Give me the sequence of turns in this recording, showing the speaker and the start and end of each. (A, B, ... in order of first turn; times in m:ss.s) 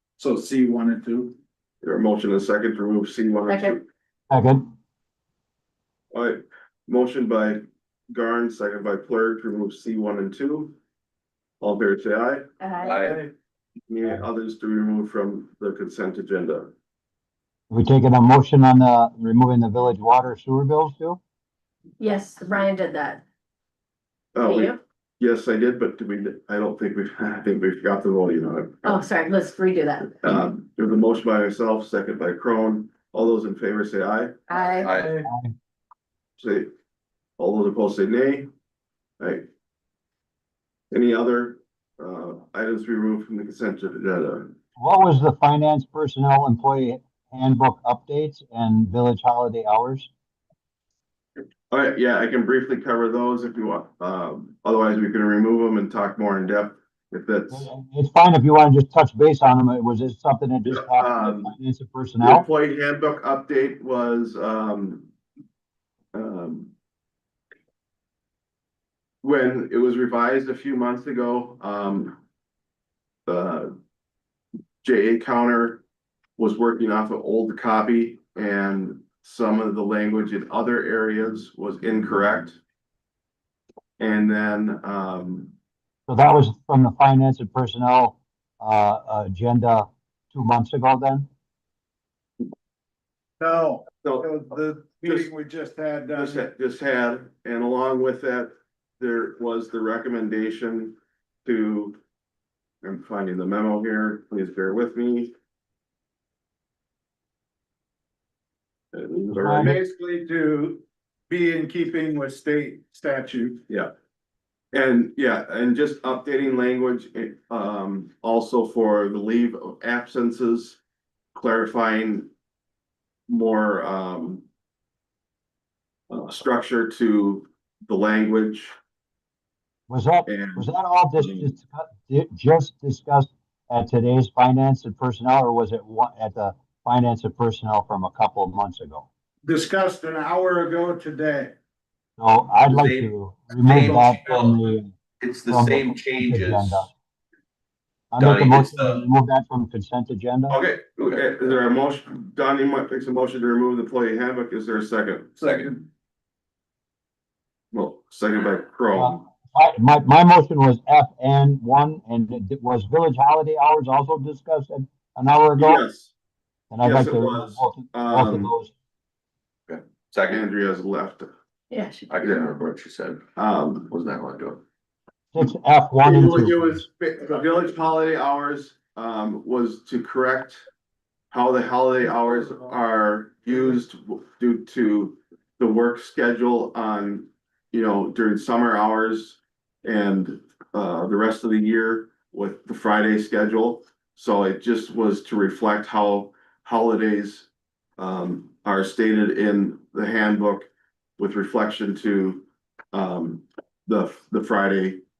0:00.2-0:01.3 A
0:01.8-0:03.8 B
0:03.5-0:03.8 C
0:04.3-0:04.7 D
0:06.1-0:10.8 B
0:11.6-0:12.4 B
0:12.6-0:13.1 C
0:12.8-0:13.1 E
0:13.9-0:16.7 B
0:17.7-0:21.2 D
0:22.0-0:23.2 C
0:24.3-0:29.0 B
0:24.4-0:24.8 C
0:28.8-0:30.2 C
0:30.2-0:34.4 B
0:34.5-0:35.0 C
0:34.8-0:35.2 E
0:36.4-0:36.7 B
0:37.4-0:38.5 B
0:39.2-0:39.4 B
0:40.9-0:44.5 B
0:44.8-0:50.1 D
0:51.7-0:57.7 B
0:57.5-1:02.4 D
1:00.7-1:01.5 B
1:02.2-1:05.1 B
1:06.1-1:06.7 B
1:09.2-1:12.2 B
1:13.3-1:13.7 B
1:14.8-1:15.8 B
1:16.4-1:22.6 B
1:24.0-1:25.5 B
1:26.1-1:31.3 D
1:33.4-1:36.4 A
1:35.0-1:35.3 B
1:36.2-1:42.0 B
1:42.8-1:45.3 B
1:48.9-1:49.8 B
1:49.3-1:49.8 D
1:49.6-1:53.6 A
1:54.7-2:00.8 B
2:01.3-2:02.3 B
2:03.3-2:04.4 B
2:06.1-2:08.7 B
2:09.9-2:19.1 D
2:10.2-2:11.5 B
2:19.4-2:21.5 A
2:22.2-2:24.9 D
2:22.7-2:24.6 E
2:25.2-2:26.8 E
2:25.5-2:26.9 D
2:28.1-2:30.6 D
2:28.2-2:29.0 E
2:30.5-2:35.4 B
2:35.4-2:35.7 E
2:37.7-2:39.2 B
2:38.9-2:45.8 D
2:45.6-2:46.1 B
2:46.7-2:48.7 D
2:46.8-2:48.5 B
2:49.7-2:50.4 E
2:50.3-2:51.3 B
2:51.7-2:52.1 C
2:52.1-2:53.2 E
2:52.2-2:52.5 B
2:53.4-2:53.9 B
2:53.9-2:54.6 E
2:55.3-2:56.8 D
2:56.0-3:00.6 B
3:01.3-3:25.0 B